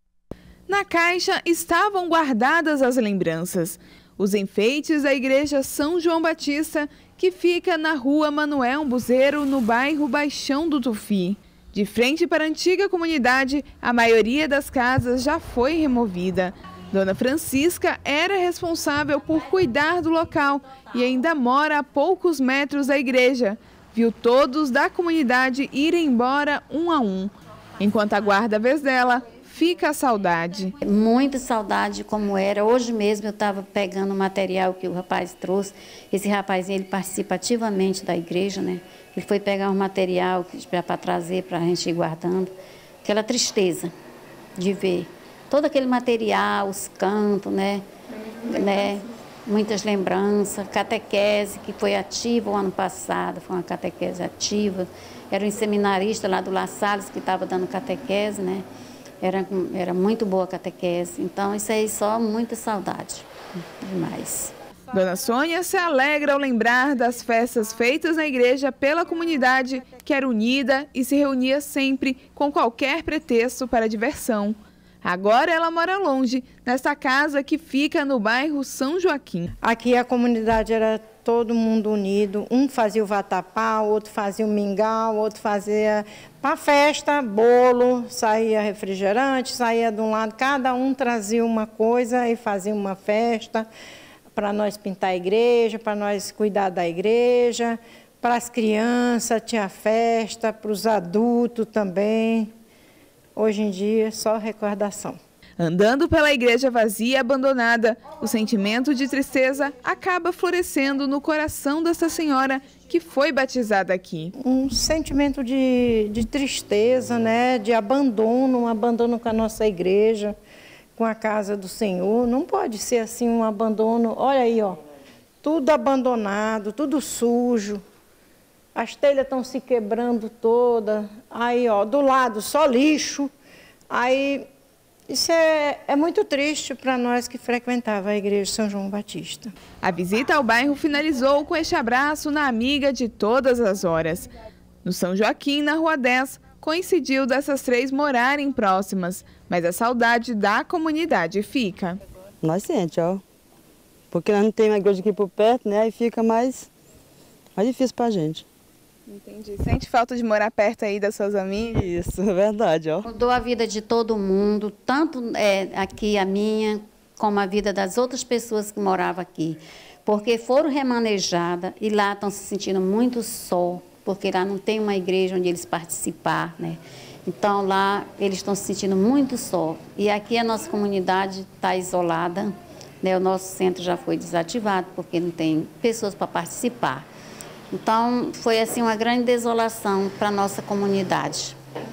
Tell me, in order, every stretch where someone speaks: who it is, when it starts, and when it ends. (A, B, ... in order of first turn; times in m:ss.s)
0:00.7-0:30.7 A
0:30.8-0:42.5 B
0:43.0-0:43.9 B
0:44.6-0:47.8 B
0:48.4-0:58.6 B
0:59.2-1:04.5 B
1:04.9-1:19.5 A
1:19.6-1:33.7 C
1:34.3-1:42.5 C
1:43.4-1:45.2 C
1:45.6-1:54.3 A
1:54.4-2:00.4 C
2:01.0-2:04.8 C
2:05.4-2:07.8 C
2:08.7-2:13.3 C
2:13.9-2:14.5 C
2:15.1-2:19.5 C
2:19.8-2:24.3 A
2:24.8-2:32.0 A
2:32.4-2:33.2 D
2:34.1-2:36.7 D
2:37.6-2:38.4 D
2:39.5-2:41.8 A
2:41.8-2:43.0 D
2:43.0-3:07.1 B
3:07.7-3:11.6 B